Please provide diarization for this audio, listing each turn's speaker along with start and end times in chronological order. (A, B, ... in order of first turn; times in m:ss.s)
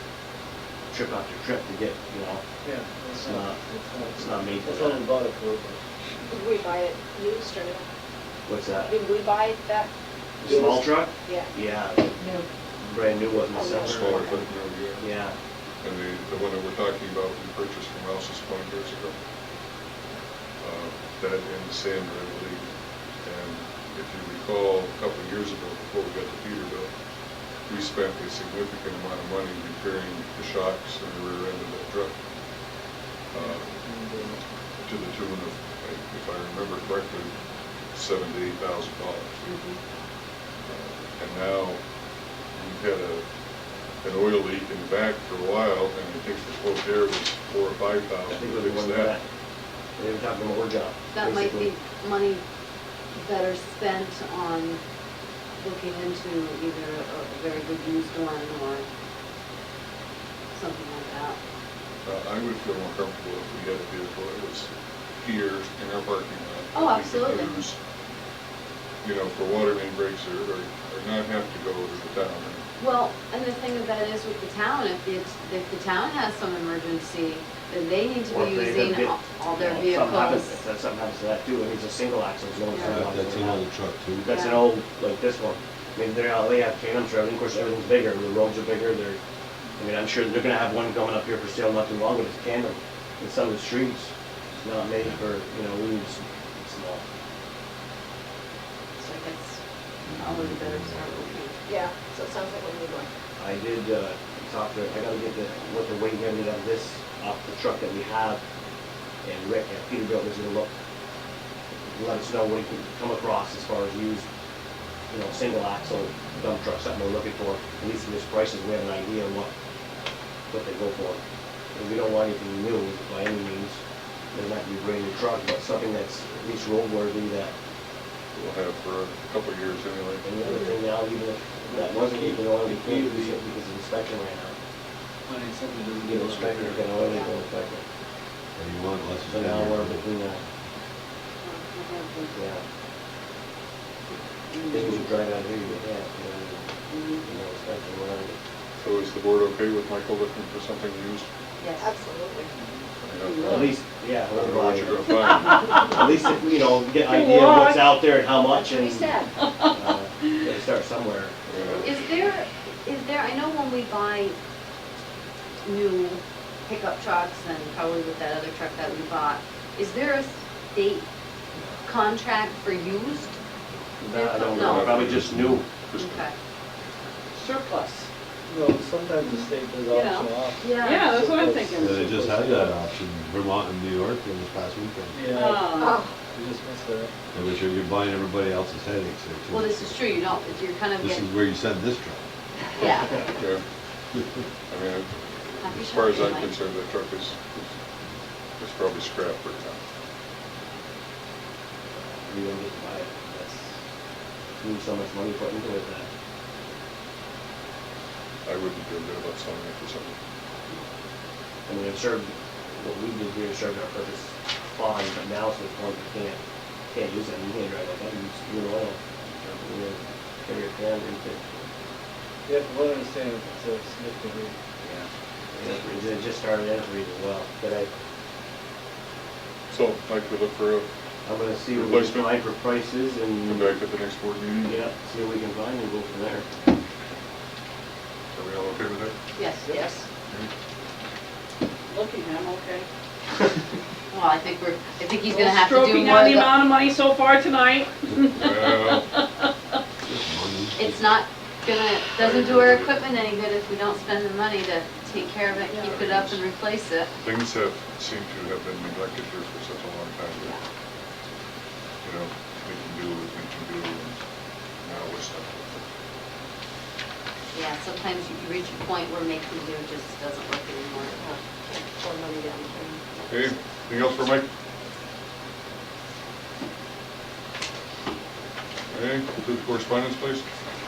0:00.9-0:02.4 A
0:02.6-0:05.8 B
0:03.2-0:03.6 A
0:04.1-0:05.1 A
0:06.3-0:07.9 C
0:08.5-0:09.0 A
0:08.9-0:09.9 C
0:10.4-0:12.1 A
0:10.4-0:10.9 B
0:12.8-0:15.3 A
0:13.8-0:15.0 D
0:15.8-0:19.2 D
0:20.6-0:22.6 D
0:23.2-0:26.9 D
0:27.7-0:32.1 D
0:33.3-0:33.7 D
0:33.4-0:34.4 B
0:34.8-0:37.3 D
0:37.9-0:39.4 D
0:39.4-0:39.8 E
0:40.7-0:41.8 D
0:42.6-0:43.2 D
0:44.0-0:49.2 D
0:48.3-0:49.2 A
0:50.0-0:51.7 A
0:51.1-0:52.4 E
0:53.1-0:54.8 E
0:55.6-0:58.9 E
1:00.5-1:01.4 E
1:02.0-1:04.7 D
1:05.2-1:07.8 D
1:06.7-1:07.5 E
1:09.0-1:12.6 D
1:12.8-1:20.6 E
1:18.3-1:23.6 A
1:22.8-1:24.2 F
1:24.2-1:29.2 A
1:24.3-1:24.7 E
1:29.8-1:37.0 A
1:39.0-1:39.6 E
1:40.1-1:41.3 F
1:40.2-1:41.6 E
1:41.7-1:43.1 C
1:43.4-1:48.4 A
1:49.2-1:50.7 A
1:51.9-1:54.3 A
1:55.1-1:59.5 A
2:00.5-2:01.2 A
2:01.7-2:03.8 A
2:04.3-2:07.5 A
2:08.3-2:10.3 D
2:10.2-2:14.6 A
2:10.4-2:10.7 E
2:11.7-2:13.4 B
2:15.3-2:17.3 B
2:16.0-2:17.8 A
2:17.1-2:17.4 E
2:18.6-2:20.1 F
2:19.3-2:20.4 A
2:21.4-2:22.4 E
2:22.3-2:22.6 A
2:24.7-2:28.4 A
2:26.9-2:27.2 E
2:28.8-2:31.3 D
2:31.6-2:31.9 E
2:31.9-2:32.5 C
2:32.6-2:33.1 B
2:33.1-2:36.0 D
2:33.5-2:35.1 A
2:35.8-2:39.2 A
2:37.0-2:38.0 G
2:38.6-2:39.3 C
2:39.7-2:41.8 A
2:41.5-2:41.9 D
2:41.8-2:44.4 E
2:45.6-2:51.0 E
2:51.8-2:53.3 E
2:54.0-2:55.6 A
2:54.1-2:55.0 E
2:54.5-2:56.3 D
2:55.0-2:55.6 F
2:56.0-2:56.3 E
2:57.3-2:58.1 G
2:58.5-3:02.8 B
2:59.9-3:02.1 G
3:00.0-3:01.5 E
3:01.8-3:05.3 F
3:05.1-3:05.8 B
3:05.3-3:06.1 G
3:06.3-3:07.1 B
3:07.3-3:10.2 F
3:09.5-3:11.3 E
3:11.0-3:12.2 F
3:12.8-3:13.3 E
3:13.3-3:13.6 D
3:14.7-3:17.7 D
3:15.6-3:16.6 E
3:18.6-3:19.8 D
3:22.2-3:23.8 A
3:24.6-3:26.1 A
3:28.4-3:30.2 D
3:31.7-3:36.4 A
3:36.9-3:39.0 A
3:39.6-3:41.7 A
3:42.5-3:44.6 B
3:45.6-3:47.9 A
3:49.7-3:50.9 D
3:51.2-3:53.8 A
3:51.7-3:52.5 D
3:53.4-3:54.9 D
3:54.7-3:56.5 A
3:58.3-3:59.2 D
3:59.4-4:00.0 E
4:01.9-4:02.9 G
4:04.1-4:06.5 E
4:05.3-4:09.5 G
4:08.4-4:09.1 D
4:10.0-4:10.8 F
4:10.8-4:17.1 E
4:12.2-4:13.0 D
4:15.8-4:16.4 D
4:17.2-4:20.6 D
4:22.0-4:24.2 D
4:24.8-4:25.9 D
4:27.5-4:31.2 E
4:31.2-4:33.0 C
4:33.3-4:34.5 D
4:38.9-4:40.4 D